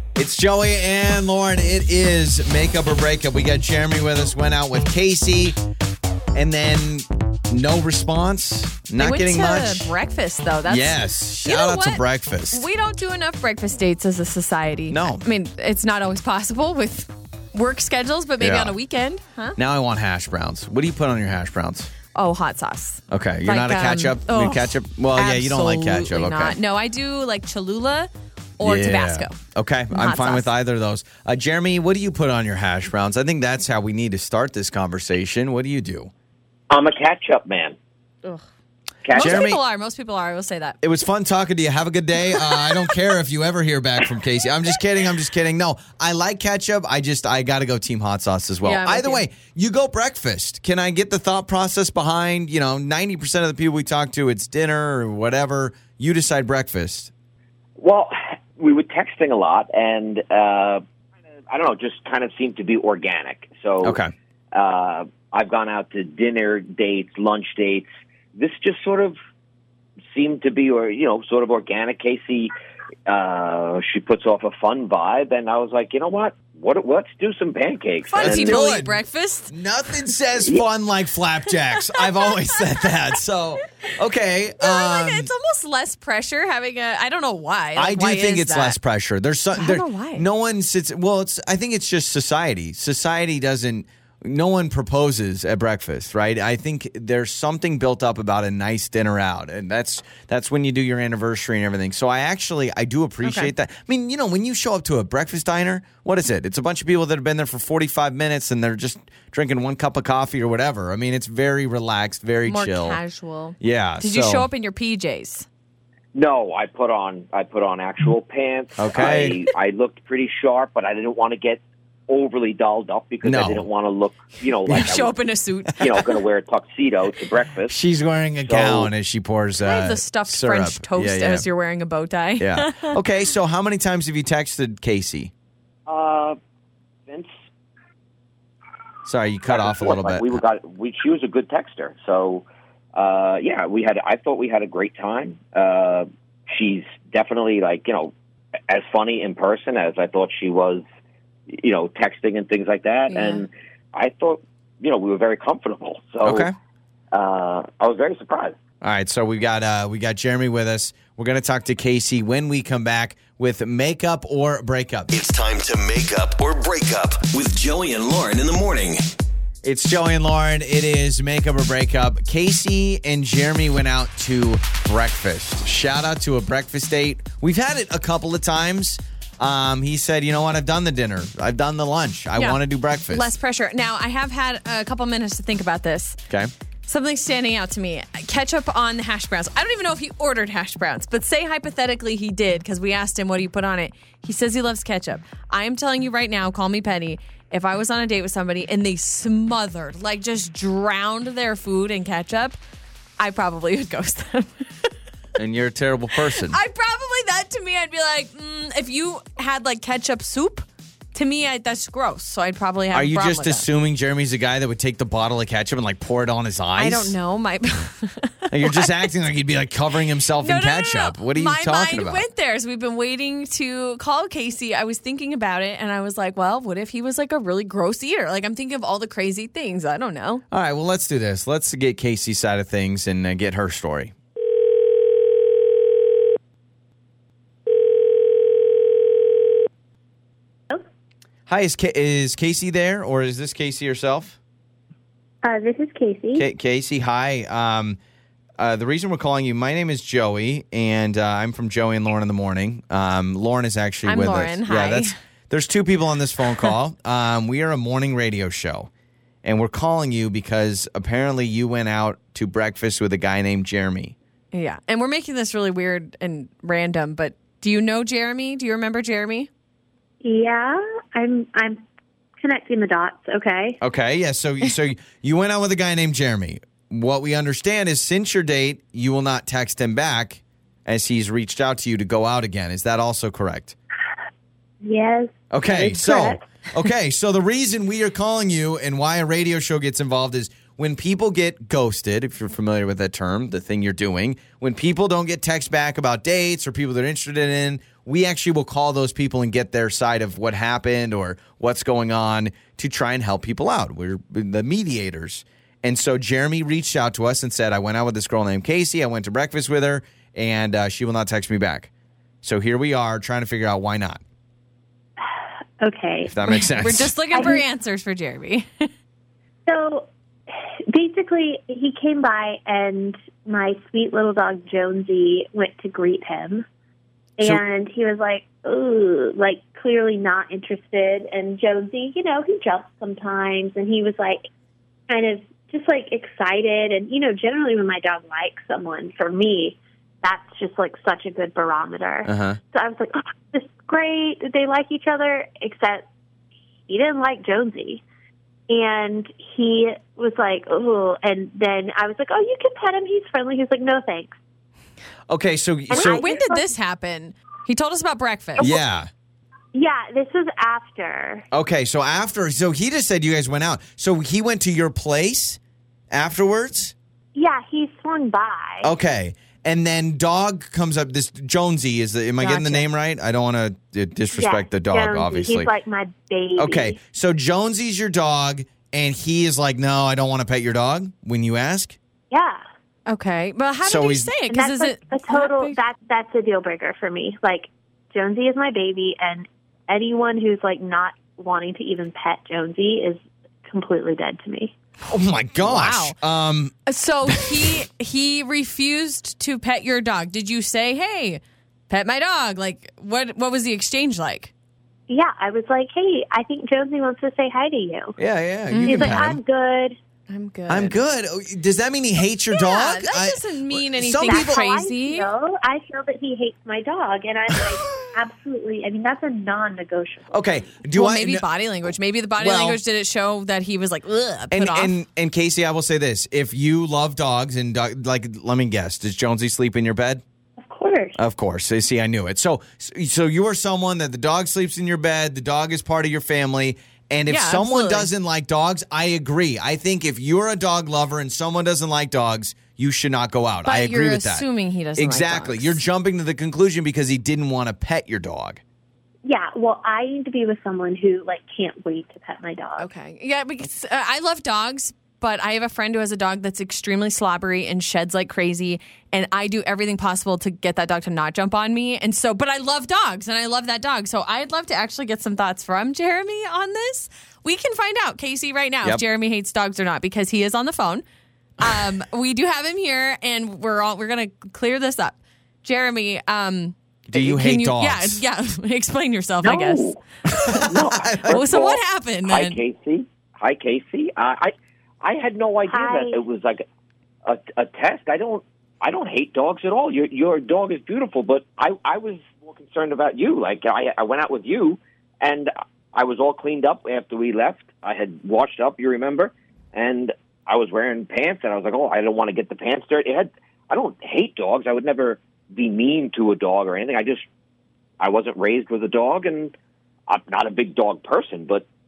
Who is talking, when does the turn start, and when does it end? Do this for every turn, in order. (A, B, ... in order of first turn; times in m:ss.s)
0:00.2-0:05.6 A
0:06.3-0:09.9 A
0:09.0-0:19.6 B
0:10.7-0:12.6 A
0:14.9-0:15.2 A
0:18.4-0:18.8 A
0:19.6-0:21.9 A
0:22.1-0:29.4 B
0:23.1-0:26.6 A
0:28.6-0:36.1 A
0:29.9-0:30.5 B
0:36.7-0:37.8 C
0:39.0-0:39.5 C
0:39.1-0:39.6 A
0:39.2-0:40.8 B
0:40.8-0:57.1 A
0:48.6-0:49.2 B
0:57.8-1:00.8 C
1:01.5-1:04.0 C
1:03.8-1:04.1 A
1:04.5-1:09.1 C
1:10.1-1:12.5 C
1:13.1-1:18.6 C
1:18.1-1:19.5 B
1:18.2-1:25.3 A
1:22.2-1:22.6 B
1:24.6-1:28.8 B
1:27.8-1:53.0 A
1:29.5-1:30.2 B
1:43.2-1:43.5 B
1:52.4-1:55.5 B
1:53.6-1:54.5 A
1:56.1-2:05.2 C
1:58.8-1:59.4 A
2:03.2-2:03.7 A
2:04.7-2:05.9 B
2:05.8-2:07.8 C
2:07.7-2:11.5 A
2:08.4-2:08.9 C
2:09.6-2:12.9 B
2:12.4-2:15.3 A
2:15.9-2:16.4 C
2:17.1-2:17.3 C
2:19.0-2:20.4 A
2:19.5-2:28.1 C
2:28.7-2:30.8 C
2:31.5-2:36.5 C
2:33.1-2:33.4 B
2:36.2-2:36.5 A
2:37.1-2:38.6 C
2:38.8-2:45.1 A
2:45.1-2:49.0 D
2:49.6-3:03.3 A
3:02.4-3:06.2 B
3:06.8-3:22.6 B
3:23.2-3:24.9 B
3:25.4-3:26.6 A
3:26.3-3:33.6 B
3:32.9-3:37.2 A
3:36.8-3:38.9 B
3:38.5-3:42.2 A
3:40.3-3:50.4 B
3:50.5-3:54.1 A
4:01.5-4:04.4 A
4:05.4-4:06.4 E
4:06.3-4:08.0 A
4:08.6-4:18.9 A
4:14.0-4:15.1 B
4:19.4-4:24.1 A
4:24.5-4:29.5 B
4:30.2-4:31.8 E
4:32.4-4:33.8 E
4:33.8-4:43.8 A
4:44.8-4:46.5 E
4:45.5-5:11.9 A
5:12.4-5:14.2 A
5:15.8-5:16.4 E
5:16.3-5:17.1 A
5:16.5-5:18.9 B
5:17.3-5:17.6 E
5:19.6-5:26.6 E
5:27.4-5:34.4 E
5:35.1-5:46.0 E
5:42.2-5:42.6 A
5:46.9-5:48.0 E
5:48.7-5:54.4 E
5:55.3-5:56.2 A
5:55.9-5:56.7 E
5:56.0-5:58.7 B
5:58.6-5:59.1 A
5:59.7-6:01.4 E
6:01.5-6:05.6 A
6:06.1-6:06.9 A
6:07.3-6:08.9 E
6:08.8-6:15.7 A
6:12.4-6:12.8 B
6:14.3-6:17.0 E
6:16.6-6:22.0 A
6:22.3-6:22.6 E
6:23.0-6:25.8 B
6:23.8-6:24.3 A
6:24.5-6:34.7 E
6:35.1-6:36.7 A
6:35.6-6:36.2 B
6:36.8-6:44.5 B
6:37.3-6:37.5 A
6:45.1-6:48.1 E
6:48.2-6:49.4 A
6:48.7-6:49.2 B
6:48.8-6:50.0 E
6:50.3-6:51.0 B
6:50.7-6:54.6 A
6:52.5-6:55.3 B
6:54.2-7:00.7 E
7:00.3-7:01.4 A
7:00.9-7:04.9 B
7:02.4-7:02.8 A
7:04.5-7:10.2 A
7:10.6-7:11.2 E
7:11.2-7:28.6 A
7:17.3-7:18.1 B
7:23.6-7:25.8 B
7:29.2-7:32.9 E
7:32.8-7:51.0 B
7:51.6-7:59.9 B
7:57.1-7:58.2 A
7:59.4-8:04.5 C
8:00.3-8:01.5 A
8:01.3-8:02.6 B
8:05.0-8:06.6 C
8:05.7-8:06.2 E
8:07.2-8:27.2 C
8:28.0-8:29.5 C
8:30.1-8:31.6 C